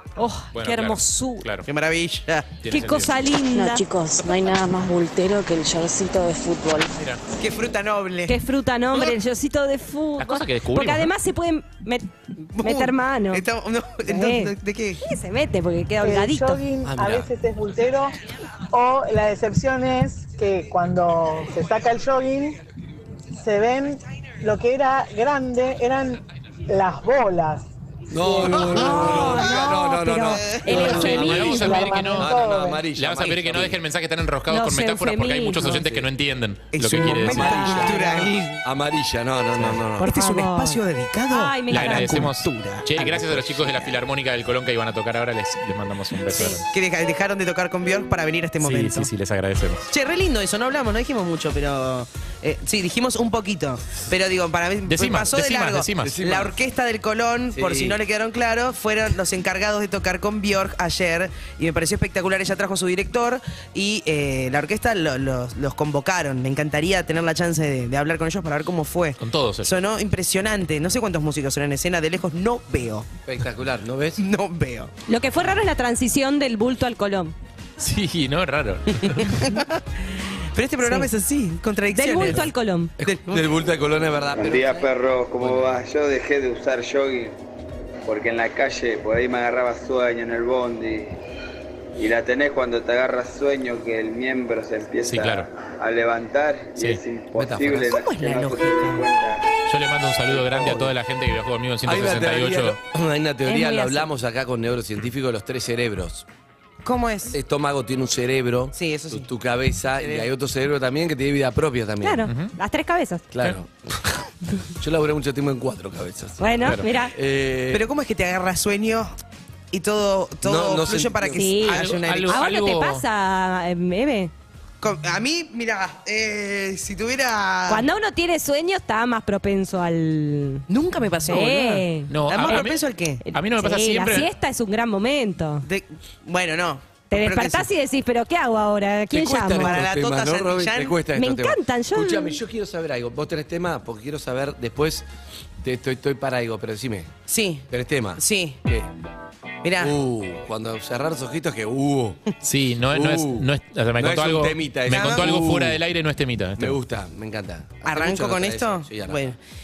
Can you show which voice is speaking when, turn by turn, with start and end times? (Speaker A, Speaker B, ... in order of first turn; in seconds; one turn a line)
Speaker A: 0.2-1.4
Speaker B: 0.5-1.6
Speaker C: 1.7-2.5
Speaker B: 2.6-3.1
Speaker A: 2.7-3.9
Speaker D: 3.5-7.1
Speaker C: 7.4-8.4
Speaker A: 8.3-12.1
Speaker B: 10.2-11.1
Speaker C: 12.5-15.0
Speaker A: 12.6-13.4
Speaker A: 14.1-16.6
Speaker E: 16.0-18.1
Speaker F: 16.8-17.3
Speaker E: 18.7-22.6
Speaker E: 23.4-28.7
Speaker F: 28.1-33.8
Speaker A: 28.5-32.0
Speaker C: 30.2-30.9
Speaker E: 30.7-32.8
Speaker B: 30.8-37.9
Speaker A: 34.5-35.8
Speaker F: 35.6-36.1
Speaker C: 36.7-38.6
Speaker F: 36.9-40.1
Speaker A: 37.0-38.3
Speaker A: 40.0-42.3
Speaker C: 40.0-43.9
Speaker B: 41.7-46.6
Speaker C: 46.4-49.1
Speaker B: 48.6-49.9
Speaker C: 49.9-73.1
Speaker B: 54.9-56.2
Speaker F: 56.0-56.6
Speaker F: 57.5-58.0
Speaker B: 69.2-69.7
Speaker F: 73.2-74.2
Speaker C: 74.2-74.9
Speaker A: 75.1-77.3
Speaker B: 77.8-79.4
Speaker C: 79.1-82.5
Speaker A: 81.9-82.9
Speaker F: 83.0-84.8
Speaker C: 83.0-83.5
Speaker G: 84.3-87.3
Speaker G: 88.1-91.2
Speaker G: 92.0-99.5
Speaker B: 95.0-95.5
Speaker F: 97.3-98.1
Speaker C: 97.9-99.0
Speaker B: 99.7-102.8
Speaker G: 100.3-100.8
Speaker F: 100.5-100.9
Speaker F: 101.8-106.2
Speaker A: 103.5-104.1
Speaker C: 106.8-107.4
Speaker F: 107.3-112.2
Speaker C: 108.8-109.3
Speaker C: 110.0-110.3
Speaker A: 112.0-113.2
Speaker B: 112.3-112.5
Speaker F: 113.3-114.1
Speaker F: 114.8-117.9
Speaker A: 116.4-117.1
Speaker C: 117.7-119.1
Speaker C: 119.7-122.4
Speaker F: 120.4-121.7
Speaker A: 121.3-124.3
Speaker B: 121.7-123.0
Speaker C: 124.8-127.9
Speaker A: 127.7-130.7
Speaker C: 130.7-133.2
Speaker A: 131.3-132.7
Speaker B: 132.1-134.3
Speaker A: 133.2-135.6
Speaker C: 135.6-137.7
Speaker A: 137.1-139.7
Speaker F: 139.1-145.1
Speaker C: 139.6-140.9
Speaker A: 141.1-142.4
Speaker F: 145.6-147.1
Speaker C: 147.3-148.6
Speaker F: 147.7-148.9
Speaker C: 149.6-149.9
Speaker F: 149.8-152.2
Speaker B: 152.4-156.8
Speaker F: 152.9-155.8
Speaker C: 154.9-155.4
Speaker F: 156.6-159.3
Speaker C: 157.8-159.4